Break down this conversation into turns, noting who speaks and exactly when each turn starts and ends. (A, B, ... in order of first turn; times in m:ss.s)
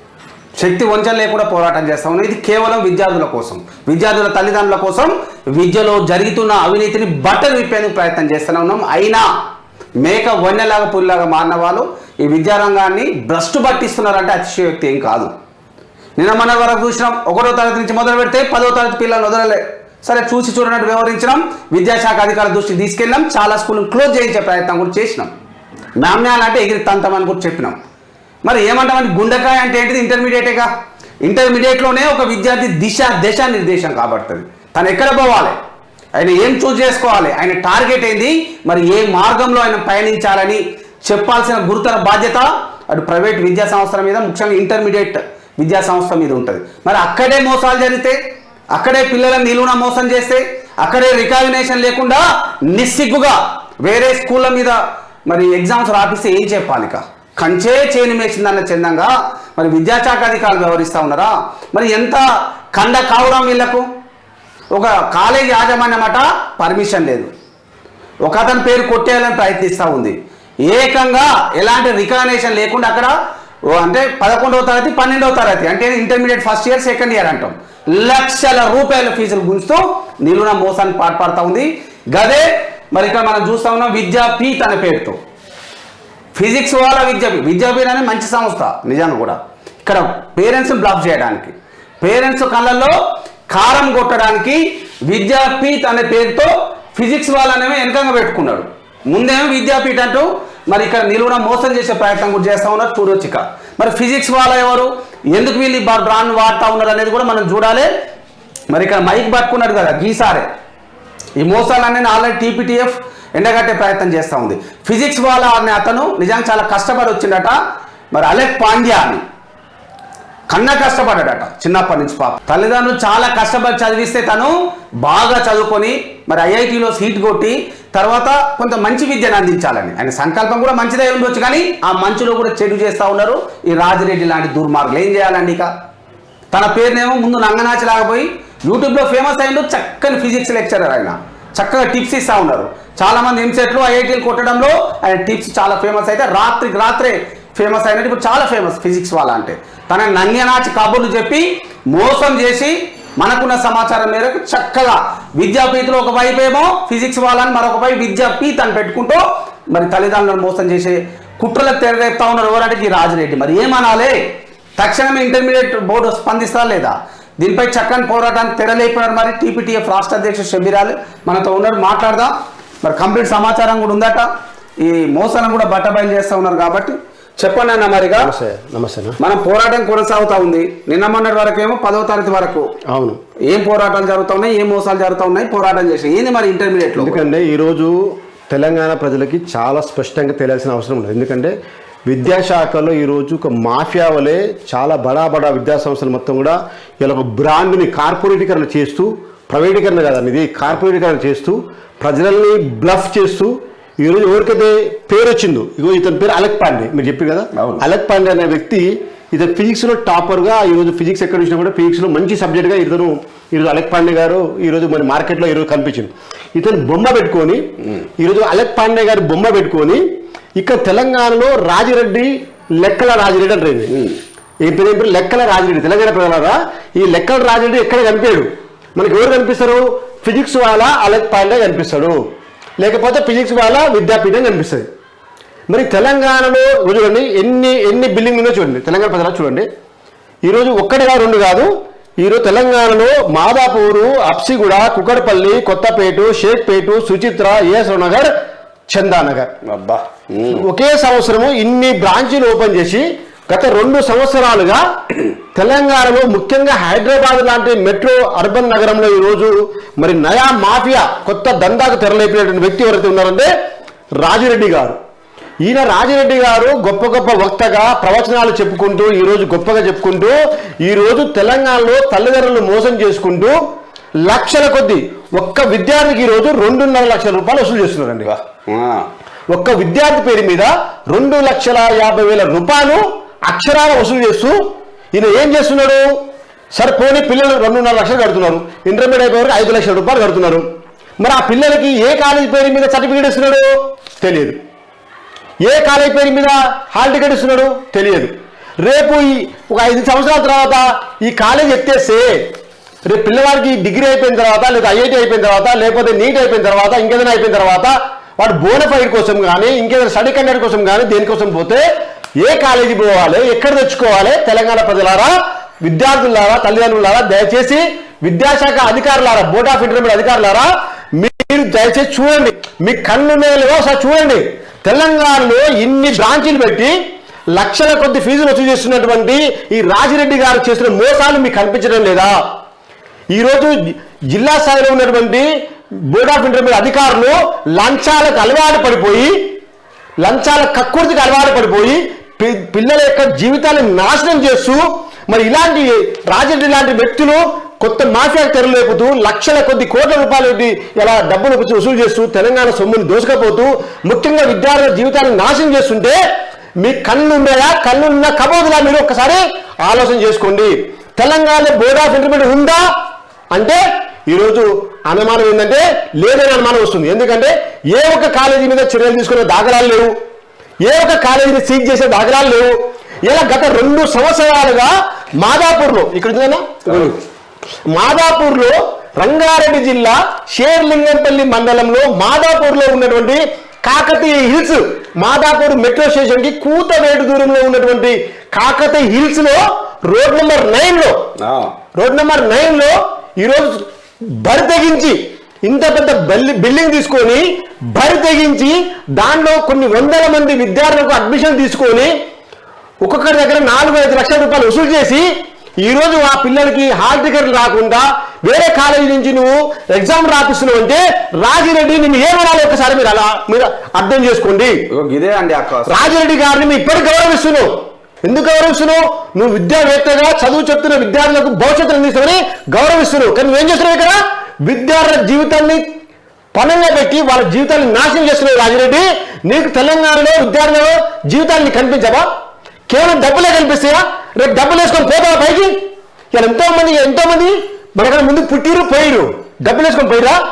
0:00.6-0:09.2 A
0:10.0-0:15.3 A
0:16.2-0:25.3 A
0:26.0-0:27.8 A
0:28.4-0:30.7 A
0:31.2-0:35.5 A
0:36.2-0:48.2 A
0:48.7-0:54.8 A
0:55.3-1:03.8 A
1:04.7-1:07.3 A
1:08.2-1:13.1 A
1:13.7-1:25.2 A
1:26.3-1:33.0 A
1:33.5-1:47.9 A
1:48.7-1:50.4 A
1:51.4-1:57.5 A
1:58.1-1:59.2 A
2:00.5-2:15.7 A
2:16.5-2:44.2 A
2:44.8-2:52.3 A
2:52.8-2:54.2 A
2:54.8-2:58.3 A
2:58.2-2:59.2 B
2:59.2-3:02.6 A
3:02.9-3:03.2 B
3:03.4-3:07.2 A
3:07.0-3:11.5 B
3:12.1-3:37.6 B
3:27.5-3:27.8 A
3:38.2-3:40.0 B
3:40.6-3:44.1 B
3:44.6-3:52.2 B
3:52.8-3:54.8 B
3:55.7-3:59.7 B
4:00.4-4:08.3 B
4:08.9-4:09.5 B
4:09.6-4:10.6 A
4:10.5-4:23.5 B
4:24.2-4:25.0 B
4:25.6-4:33.6 B
4:34.2-4:38.3 B
4:38.2-4:39.1 A
4:39.5-4:44.6 B
4:45.1-4:46.1 B
4:46.7-4:50.6 B
4:51.2-4:54.6 B
4:55.6-5:02.4 B
5:03.0-5:11.8 B
5:12.4-5:26.9 B
5:27.5-5:32.4 B
5:33.3-5:35.5 B
5:36.1-5:39.3 B
5:40.2-5:56.2 B
5:56.8-6:02.8 B
6:03.5-6:10.1 B
6:10.8-6:12.7 B
6:13.3-6:17.2 B
6:16.8-6:17.1 A
6:17.9-6:31.2 B
6:31.4-6:31.7 A
6:32.0-6:42.1 B
6:43.0-6:45.3 B
6:45.8-6:54.8 B
6:54.9-6:56.1 A
6:55.9-6:57.7 B
6:58.2-7:05.8 B
7:06.5-7:12.2 B
7:12.9-7:15.7 B
7:16.3-7:20.4 B